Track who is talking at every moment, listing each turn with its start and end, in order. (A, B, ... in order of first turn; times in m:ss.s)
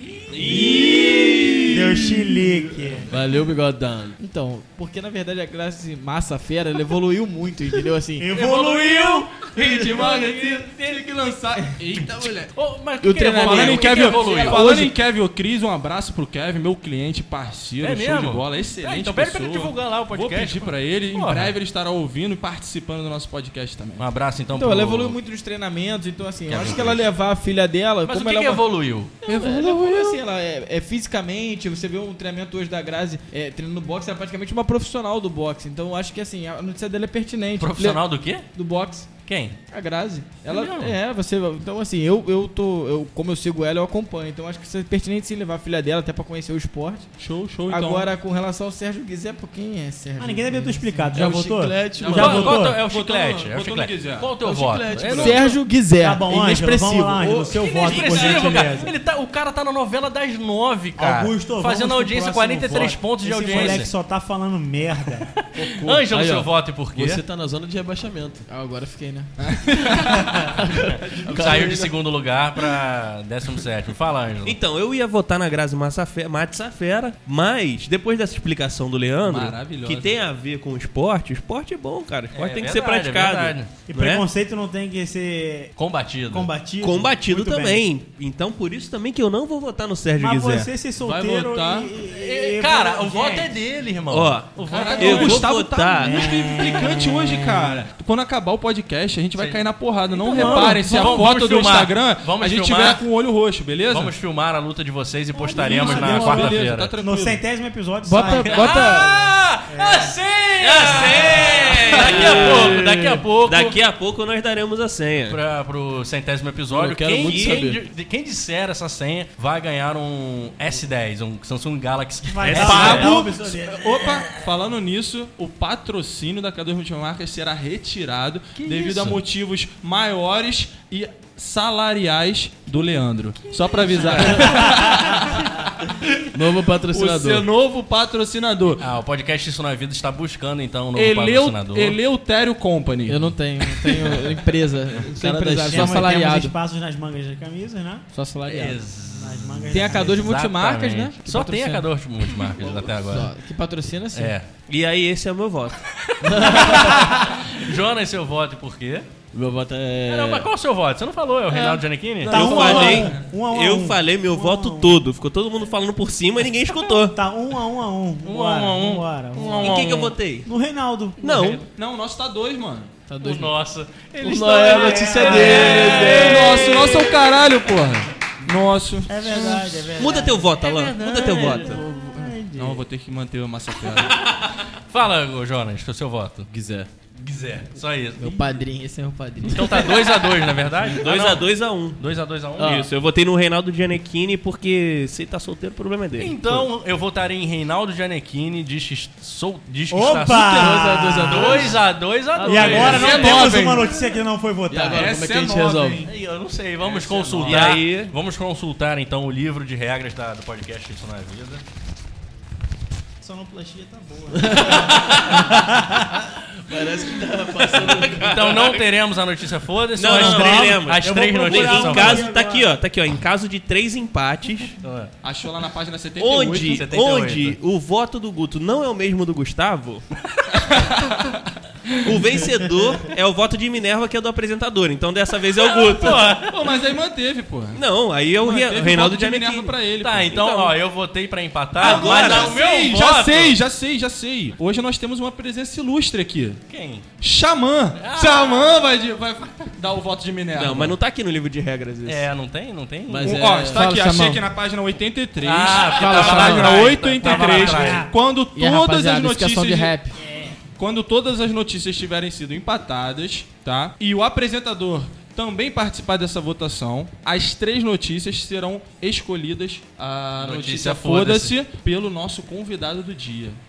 0:00.2-0:01.6 A
0:01.7-0:03.1 B
0:03.1-0:04.2 C
0:04.2-0:08.3 D
0:08.2-0:09.4 B
0:08.3-0:10.6 A
0:09.0-0:12.5 E
0:12.0-0:14.8 A
0:13.0-0:14.9 D
0:13.4-0:24.0 E
0:17.8-0:21.6 A
0:24.0-0:25.2 A
0:24.5-0:28.6 D
0:26.5-0:27.0 A
0:28.0-0:29.1 A
0:29.2-0:30.2 E
0:29.2-0:39.1 D
0:37.6-0:38.5 A
0:39.2-0:39.6 A
0:39.7-0:47.1 D
0:40.5-0:40.9 A
0:47.2-0:48.1 E
0:47.7-0:51.2 D
0:50.2-0:52.8 B
0:51.1-0:52.6 C
0:51.9-0:54.3 E
0:52.1-0:55.6 A
0:54.4-0:55.4 C
0:55.1-0:57.6 D
0:56.0-0:58.9 B
0:57.5-1:03.9 A
1:01.0-1:05.4 B
1:05.7-1:07.2 A
1:06.0-1:08.4 C
1:08.5-1:09.6 D
1:09.5-1:10.2 E
1:10.4-1:11.9 C
1:10.9-1:14.6 A
1:14.4-1:24.3 F
1:19.2-1:20.2 E
1:22.3-1:23.7 A
1:23.9-1:25.7 B
1:25.8-1:26.5 A
1:26.3-1:27.8 B
1:26.8-1:30.7 F
1:30.2-1:33.6 B
1:31.0-1:31.9 E
1:32.1-1:35.6 A
1:34.1-1:36.2 F
1:34.6-1:44.1 E
1:34.8-1:35.5 B
1:36.0-1:37.7 B
1:40.1-1:43.0 A
1:40.4-1:40.6 B
1:40.4-1:41.2 D
1:43.9-1:46.9 A
1:45.5-1:50.1 B
1:45.5-1:47.4 E
1:46.0-1:46.4 D
1:48.0-1:49.2 D
1:48.2-1:53.8 A
1:50.6-1:52.9 F
1:52.2-1:53.2 C
1:53.4-1:55.4 F
1:55.3-2:03.1 A
1:56.7-1:57.8 C
1:57.2-1:57.7 F
2:02.2-2:04.2 B
2:02.4-2:03.2 F
2:02.6-2:15.7 E
2:08.6-2:09.2 A
2:13.8-2:14.7 A
2:16.3-2:17.5 C
2:16.9-2:18.8 E
2:18.8-2:22.0 A
2:20.9-2:24.2 E
2:23.1-2:26.5 D
2:25.1-2:26.2 C
2:25.7-2:28.0 B
2:28.1-2:28.8 D
2:28.5-2:33.3 A
2:29.1-2:30.3 B
2:29.7-2:31.8 D
2:32.6-2:32.8 C
2:33.0-2:34.3 D
2:34.1-2:34.5 A
2:34.7-2:35.8 F
2:36.0-2:39.1 A
2:36.2-2:37.1 C
2:39.3-2:40.5 C
2:40.1-2:43.0 A
2:42.2-2:47.2 F
2:42.2-2:45.0 B
2:42.9-2:43.3 E
2:47.1-2:51.2 B
2:48.2-2:50.1 A
2:49.4-2:50.5 F
2:51.2-2:51.6 A
2:51.2-2:51.6 F
2:51.6-2:52.9 E
2:53.1-2:53.5 D
2:53.2-2:57.3 A
2:54.2-2:56.8 C
2:54.6-2:57.0 B
2:56.1-2:59.6 E
2:59.1-3:00.5 B
3:00.0-3:01.8 F
3:00.6-3:01.8 A
3:01.2-3:02.8 B
3:01.9-3:04.2 E
3:04.0-3:06.5 A
3:06.5-3:06.9 C
3:07.1-3:08.6 A
3:08.2-3:10.1 D
3:09.5-3:12.8 A
3:10.9-3:12.0 F
3:12.6-3:16.7 F
3:12.6-3:12.9 C
3:16.2-3:23.6 A
3:19.9-3:21.8 B
3:20.3-3:21.8 C
3:22.4-3:23.1 C
3:22.4-3:25.2 B
3:22.7-3:24.0 E
3:24.7-3:26.1 C
3:24.8-3:26.1 E
3:26.0-3:31.6 A
3:26.8-3:27.8 C
3:27.4-3:28.1 F
3:33.2-3:36.2 B
3:34.3-3:34.9 C
3:34.9-3:35.5 A
3:36.6-3:38.8 C
3:37.7-3:42.3 A
3:40.0-3:44.8 F
3:40.0-3:42.7 B
3:44.8-3:45.1 A
3:45.2-3:46.8 E
3:46.2-3:50.0 F
3:46.7-3:47.6 A
3:50.6-3:51.4 E
3:52.0-3:56.4 F
3:55.6-3:56.5 A
3:56.4-3:57.8 E
3:57.7-4:00.7 F
3:58.4-4:00.3 E
4:00.0-4:03.6 A
4:01.8-4:06.6 E
4:01.8-4:02.6 F
4:06.7-4:07.0 A
4:07.2-4:10.9 E
4:08.0-4:08.8 A
4:10.5-4:12.3 F
4:12.0-4:13.6 A
4:13.1-4:13.9 C
4:13.2-4:20.0 E
4:13.6-4:14.4 D
4:15.4-4:18.1 A
4:15.9-4:16.8 D
4:17.2-4:18.1 B
4:18.5-4:20.2 D
4:20.8-4:33.6 E
4:30.4-4:31.5 A